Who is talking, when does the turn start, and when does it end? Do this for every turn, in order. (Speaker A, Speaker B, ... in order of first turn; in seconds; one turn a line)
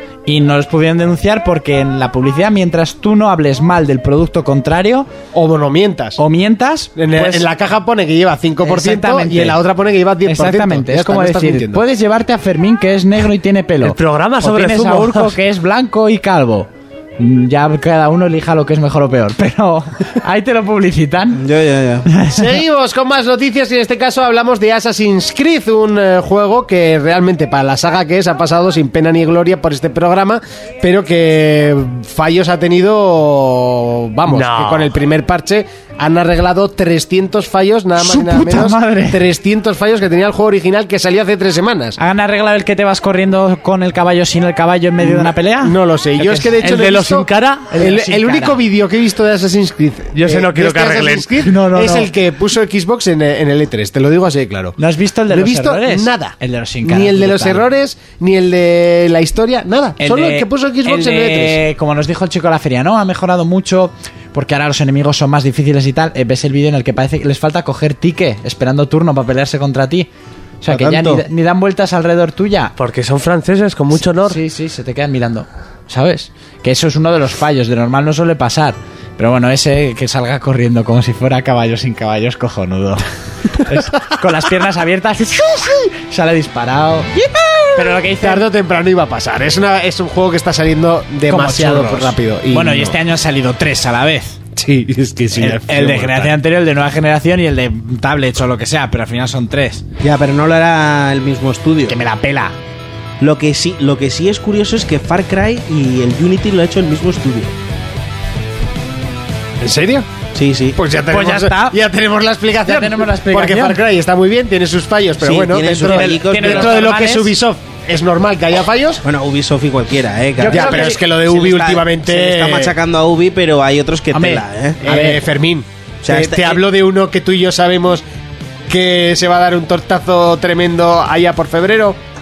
Speaker A: 0.2-5.1
Speaker B: 5.3-6.2
Speaker A: 6.2-7.5
Speaker B: 7.0-11.8
Speaker A: 8.6-9.6
Speaker A: 10.2-21.4
Speaker C: 13.8-15.4
Speaker D: 21.3-22.1
Speaker A: 22.1-22.6
Speaker B: 22.3-42.0
Speaker C: 34.3-34.9
Speaker A: 38.0-39.2
Speaker A: 42.0-46.9
Speaker B: 45.0-54.7
Speaker C: 46.6-47.7
Speaker A: 47.7-48.6
Speaker C: 50.1-51.3
Speaker A: 51.4-52.1
Speaker A: 54.8-57.7
Speaker B: 55.3-61.6
Speaker A: 60.0-70.1
Speaker A: 70.6-72.7
Speaker D: 70.7-71.2
Speaker C: 72.8-74.4
Speaker A: 73.9-83.0
Speaker A: 83.6-87.2
Speaker A: 87.7-88.4
Speaker B: 88.0-93.0
Speaker A: 91.3-94.4
Speaker B: 94.5-96.3
Speaker A: 95.3-99.8
Speaker D: 100.0-102.0
Speaker A: 101.9-102.5
Speaker D: 103.2-107.5
Speaker B: 109.6-110.1
Speaker D: 110.3-110.8
Speaker B: 110.7-119.0
Speaker A: 111.1-111.8
Speaker A: 112.7-113.8
Speaker D: 115.2-116.8
Speaker A: 115.8-117.3
Speaker D: 119.0-124.8
Speaker A: 120.4-121.0
Speaker B: 120.5-122.8
Speaker A: 124.1-125.2
Speaker B: 124.8-128.0
Speaker D: 126.0-126.6
Speaker B: 128.7-132.0